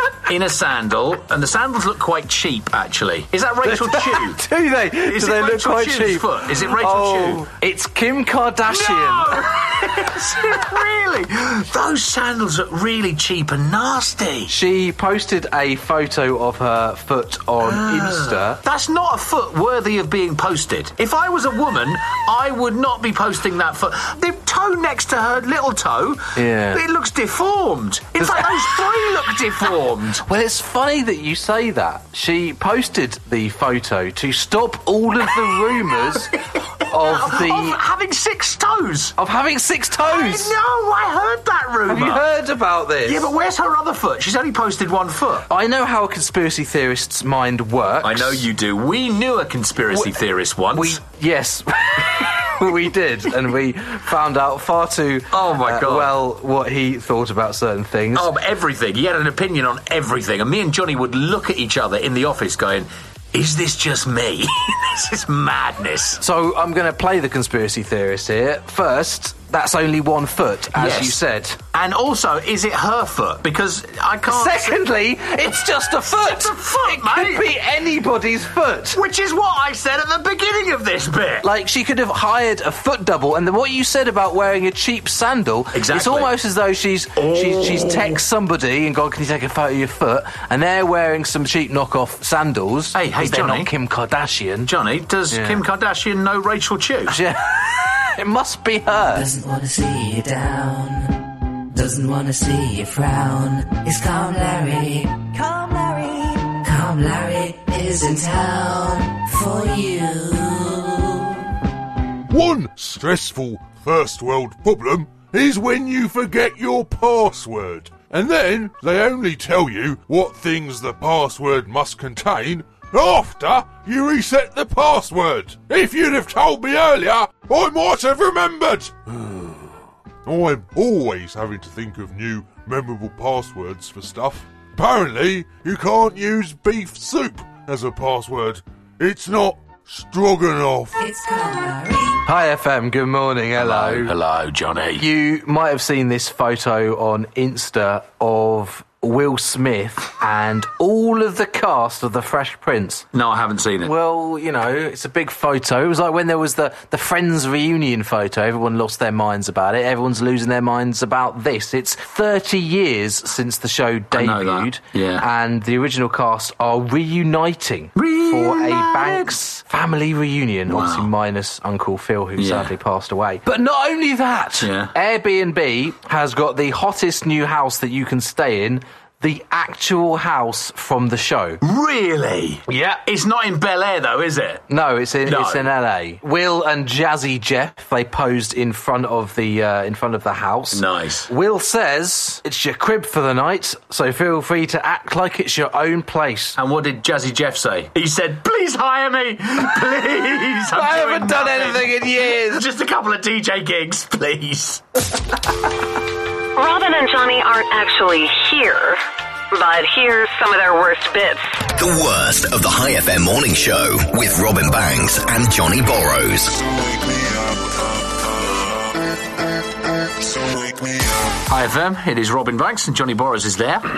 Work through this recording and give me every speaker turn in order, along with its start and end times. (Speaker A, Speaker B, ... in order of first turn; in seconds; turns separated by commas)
Speaker A: 0.3-4.4, Speaker B: 3.6-9.5, Speaker A: 5.1-7.5, Speaker A: 8.7-14.5, Speaker B: 14.5-18.6, Speaker A: 17.6-30.2, Speaker B: 26.4-26.8, Speaker B: 28.2-28.7, Speaker B: 30.3-36.4, Speaker A: 36.4-39.1, Speaker B: 36.9-37.8, Speaker B: 39.2-40.5, Speaker A: 40.0-42.3, Speaker B: 41.9-43.3, Speaker A: 43.0-45.5, Speaker B: 45.5-48.5, Speaker A: 48.0-51.0, Speaker B: 49.9-50.2, Speaker B: 50.7-58.3, Speaker A: 55.3-56.1, Speaker A: 58.1-66.2, Speaker B: 66.2-71.6, Speaker A: 70.8-71.2, Speaker A: 71.7-74.8, Speaker B: 74.3-79.0, Speaker A: 76.1-77.5, Speaker A: 78.9-81.5, Speaker B: 81.4-94.7, Speaker A: 85.7-86.3, Speaker A: 87.2-88.2, Speaker A: 92.9-93.7, Speaker A: 94.7-97.2, Speaker B: 95.3-95.6, Speaker B: 97.1-99.4, Speaker C: 99.5-100.5, Speaker B: 100.8-101.0, Speaker B: 101.7-105.0, Speaker C: 104.2-104.6, Speaker B: 106.7-111.2, Speaker C: 106.9-107.2, Speaker C: 108.2-108.5, Speaker D: 112.3-129.7, Speaker D: 130.2-141.1, Speaker B: 142.2-144.1, Speaker A: 143.6-145.1, Speaker B: 145.0-153.1, Speaker A: 153.1-153.9, Speaker B: 153.8-181.6, Speaker A: 164.1-165.2, Speaker A: 168.0-169.3, Speaker A: 170.7-171.1, Speaker A: 172.4-172.7, Speaker A: 174.6-174.9, Speaker A: 181.6-184.7, Speaker B: 182.7-183.0, Speaker B: 184.7-196.6, Speaker A: 185.2-185.7, Speaker A: 190.7-191.3, Speaker A: 196.6-204.8, Speaker B: 200.7-202.7, Speaker E: 206.6-211.7, Speaker F: 211.7-216.7, Speaker A: 221.5-223.9